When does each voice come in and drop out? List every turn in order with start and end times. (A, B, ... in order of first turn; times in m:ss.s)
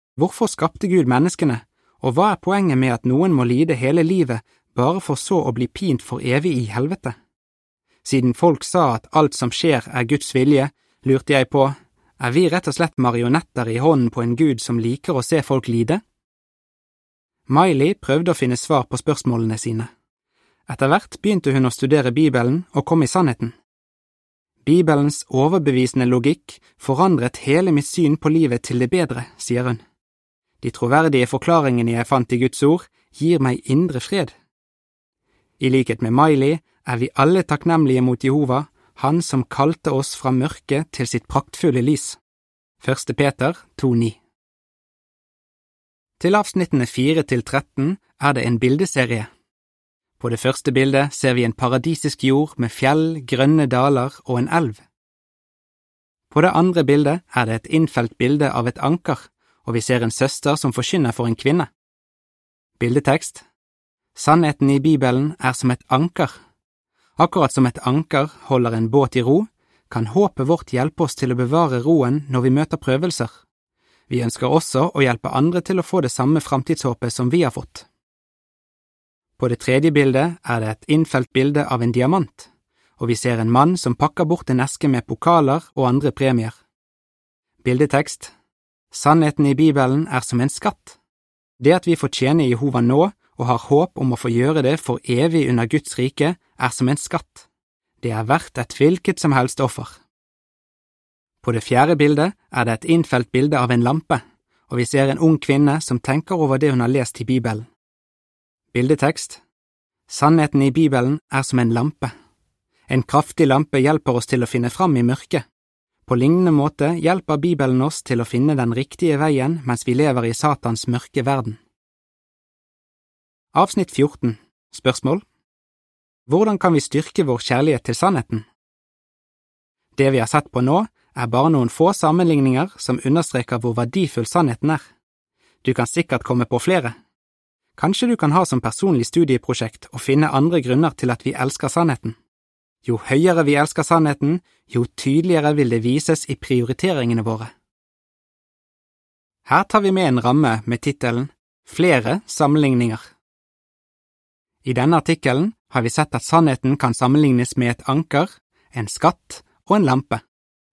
0:00.2-0:07.1 A
0:08.0-0:16.0 A
0:17.5-0:19.9 A
0:20.7-0:23.5 A
0:24.6-0:29.8 A
0:30.6-0:34.3 A
0:35.6-0:42.2 A
0:42.8-0:44.2 A
0:46.2-0:49.3 A
0:50.2-0:54.8 A
0:56.3-1:01.7 A
1:02.8-1:03.4 A
1:04.1-1:06.3 A
1:07.2-1:13.3 A
1:14.1-1:17.9 A
1:19.4-1:26.6 A
1:27.6-1:28.3 A
1:28.9-1:31.0 A
1:31.6-1:37.5 A
1:38.0-1:40.0 A
1:41.4-1:47.7 A
1:48.7-1:49.4 A
1:50.1-1:52.1 A
1:52.9-1:55.4 A
1:56.0-2:01.6 A
2:03.5-2:05.2 A
2:06.3-2:08.4 A
2:10.0-2:14.8 A
2:15.6-2:16.9 A
2:17.8-2:22.2 A
2:22.8-2:27.5 A
2:29.4-2:33.1 A
2:34.6-2:40.2 A